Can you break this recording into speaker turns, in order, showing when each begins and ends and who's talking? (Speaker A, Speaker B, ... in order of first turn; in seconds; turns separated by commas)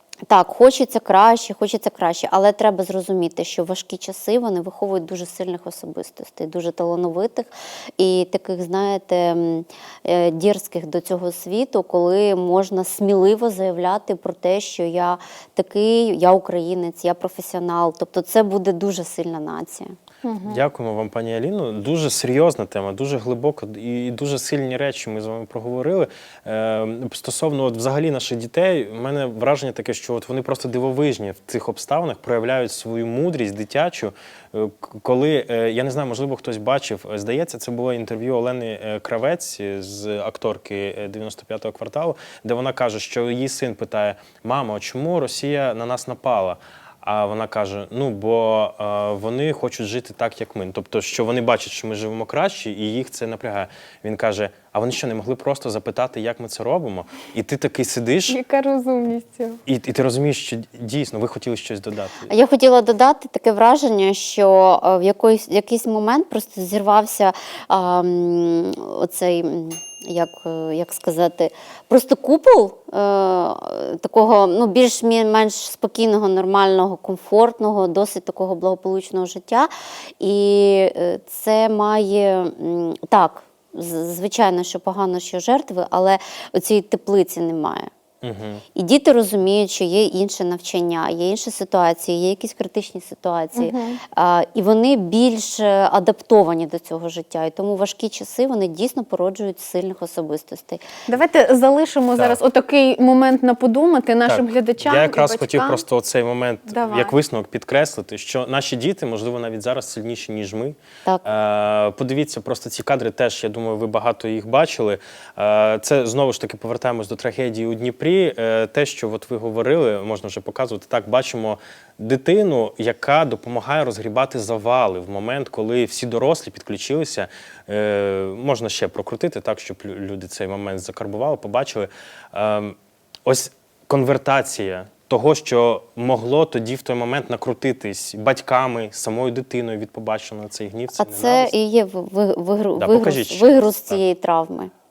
Speaker A: 0.3-19.9, Speaker B: 20.2-20.6, Speaker C: 20.4-58.4, Speaker B: 58.3-59.6, Speaker C: 59.6-62.3, Speaker A: 62.3-87.9, Speaker C: 88.2-88.6, Speaker A: 88.7-100.9, Speaker B: 93.5-94.0, Speaker B: 101.1-105.8, Speaker C: 104.2-141.5, Speaker B: 106.7-107.1, Speaker A: 141.0-144.7, Speaker C: 142.8-144.0